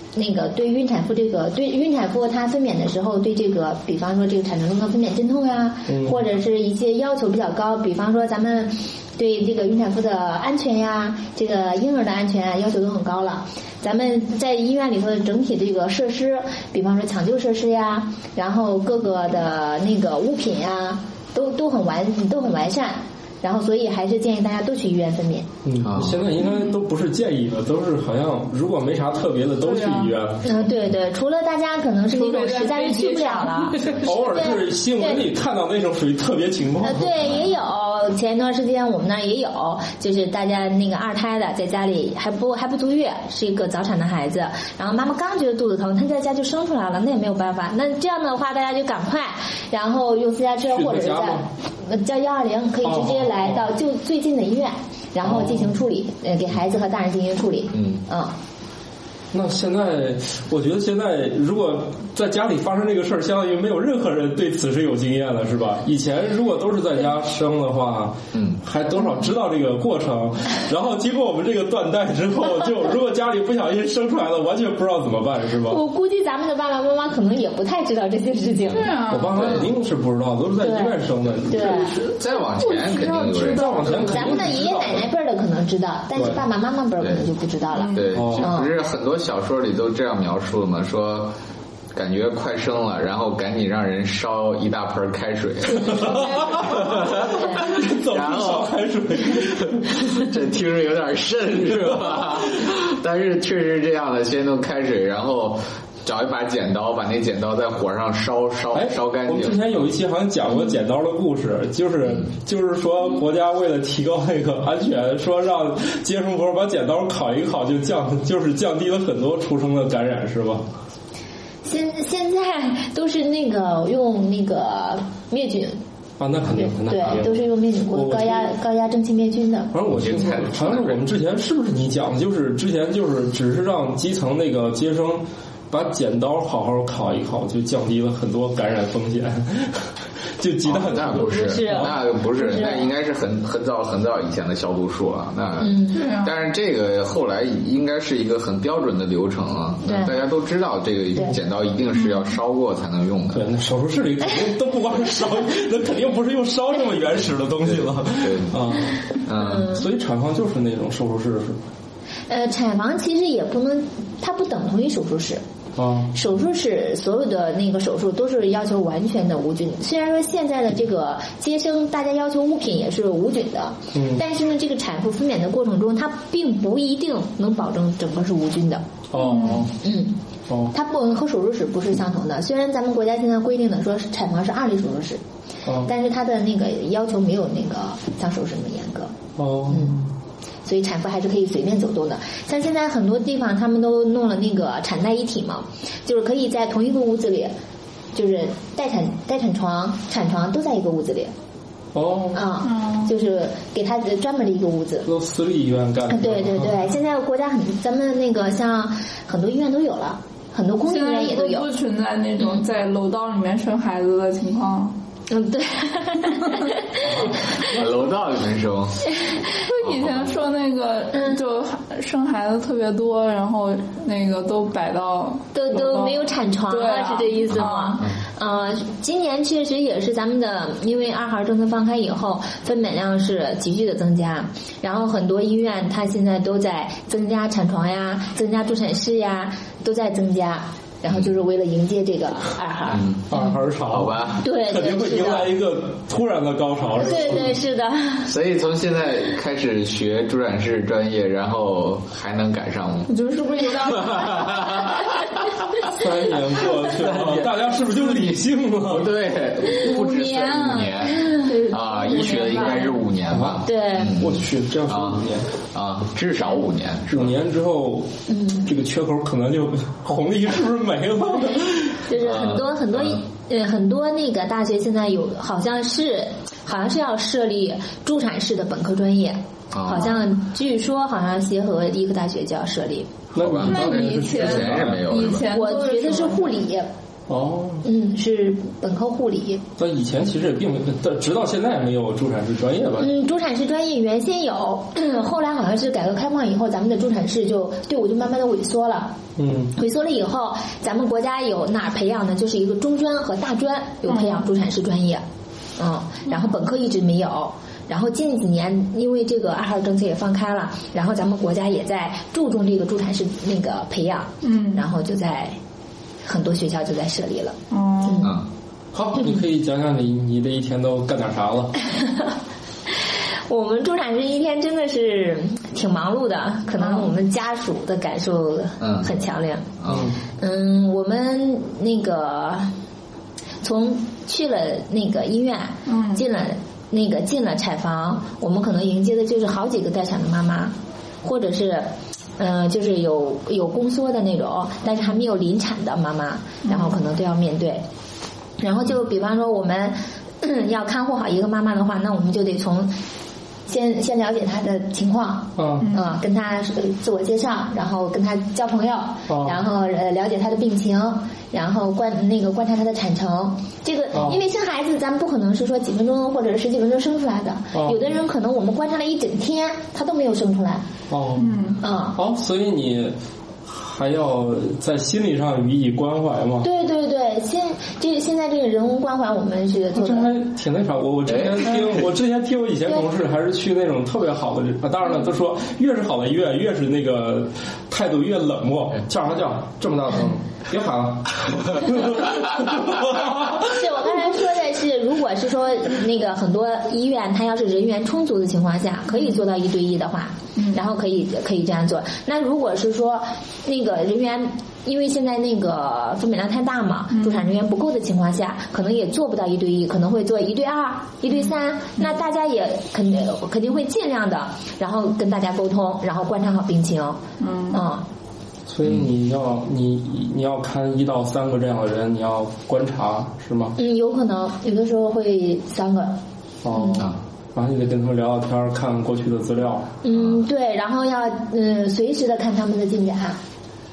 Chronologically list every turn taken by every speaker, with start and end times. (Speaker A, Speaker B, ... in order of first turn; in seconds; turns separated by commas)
Speaker A: 0.1-25.5, Speaker B: 5.9-6.2, Speaker B: 25.6-30.6, Speaker C: 25.8-26.2, Speaker D: 29.6-30.1, Speaker A: 30.4-35.2, Speaker D: 32.1-34.1, Speaker B: 34.0-37.4, Speaker A: 36.8-58.3, Speaker B: 50.7-51.5, Speaker B: 52.8-53.6, Speaker B: 55.2-55.8, Speaker C: 57.7-58.0, Speaker B: 59.3-75.8, Speaker C: 68.3-68.6, Speaker A: 75.7-78.9, Speaker D: 78.7-79.6, Speaker B: 79.1-81.9, Speaker C: 79.4-79.7, Speaker A: 80.6-81.9, Speaker C: 82.1-84.7, Speaker A: 82.7-88.7, Speaker B: 83.0-85.0, Speaker B: 86.1-86.4, Speaker D: 87.8-88.1, Speaker C: 87.9-91.3, Speaker B: 88.1-88.5, Speaker C: 91.9-98.7, Speaker B: 95.8-100.2, Speaker C: 99.4-109.8, Speaker B: 101.8-102.7, Speaker B: 108.7-120.7, Speaker A: 121.6-125.8, Speaker B: 126.2-128.5, Speaker A: 126.5-129.7, Speaker B: 129.7-142.0, Speaker C: 129.9-131.0, Speaker C: 140.6-153.4, Speaker A: 141.2-142.9, Speaker A: 145.6-146.0, Speaker D: 145.9-146.3, Speaker A: 149.8-150.1, Speaker D: 152.0-152.3, Speaker B: 153.3-161.6, Speaker C: 157.6-158.6, Speaker C: 159.2-159.7, Speaker A: 159.3-159.8, Speaker A: 162.3-165.4, Speaker B: 165.8-166.1, Speaker A: 166.1-180.2, Speaker B: 173.9-174.2, Speaker B: 179.1-179.7, Speaker D: 179.2-179.7, Speaker A: 180.7-185.2, Speaker B: 185.6-185.9, Speaker A: 185.8-189.1, Speaker B: 189.4-190.1, Speaker A: 189.7-190.0, Speaker A: 190.6-197.5, Speaker A: 198.1-201.3, Speaker B: 201.9-202.4, Speaker A: 202.3-205.1, Speaker D: 202.6-203.1, Speaker B: 205.0-206.8, Speaker A: 206.1-211.7, Speaker D: 210.9-214.9, Speaker A: 215.3-217.7, Speaker C: 217.6-219.1, Speaker D: 219.6-228.0, Speaker C: 219.8-220.2, Speaker A: 225.5-243.4, Speaker C: 227.5-228.2, Speaker C: 242.9-243.3, Speaker B: 243.3-247.5, Speaker C: 243.9-244.4, Speaker A: 244.4-245.5, Speaker A: 247.0-248.3, Speaker C: 248.3-253.1, Speaker D: 253.1-254.9, Speaker C: 253.9-255.0, Speaker B: 255.9-259.2, Speaker C: 256.8-267.3, Speaker D: 259.7-263.0, Speaker A: 261.1-261.5, Speaker B: 263.3-265.5, Speaker A: 263.6-264.1, Speaker B: 267.1-268.1, Speaker A: 268.3-268.7, Speaker B: 268.6-272.1, Speaker A: 272.1-283.1, Speaker C: 272.2-273.2, Speaker C: 279.7-280.2, Speaker B: 283.3-285.1, Speaker C: 283.4-285.5, Speaker D: 283.6-286.6, Speaker A: 285.5-286.9, Speaker B: 287.3-287.8, Speaker A: 287.8-289.6, Speaker B: 289.8-293.1, Speaker A: 293.0-299.1, Speaker B: 299.4-299.7, Speaker A: 299.7-305.2, Speaker D: 304.1-304.4, Speaker A: 305.8-315.6, Speaker D: 314.4-314.8, Speaker A: 316.2-318.3, Speaker D: 317.7-318.3, Speaker C: 318.2-318.5, Speaker B: 318.9-321.7, Speaker A: 323.5-329.7, Speaker D: 326.8-327.1, Speaker C: 328.8-329.1, Speaker C: 329.8-330.1, Speaker B: 329.9-330.2, Speaker A: 330.4-332.7, Speaker A: 333.6-347.8, Speaker D: 335.9-336.2, Speaker D: 346.6-346.9, Speaker A: 348.6-352.9, Speaker A: 353.7-370.8, Speaker B: 355.6-355.9, Speaker B: 359.3-359.6, Speaker B: 364.1-364.4, Speaker B: 367.7-368.0, Speaker B: 371.1-376.7, Speaker D: 371.4-371.8, Speaker A: 371.8-372.2, Speaker A: 376.6-380.3, Speaker B: 379.9-393.7, Speaker C: 381.3-382.1, Speaker A: 393.0-418.0, Speaker D: 407.1-407.4, Speaker D: 417.4-417.8, Speaker B: 418.7-423.8, Speaker A: 423.8-426.2, Speaker B: 426.6-429.9, Speaker A: 426.7-427.1, Speaker A: 430.0-433.4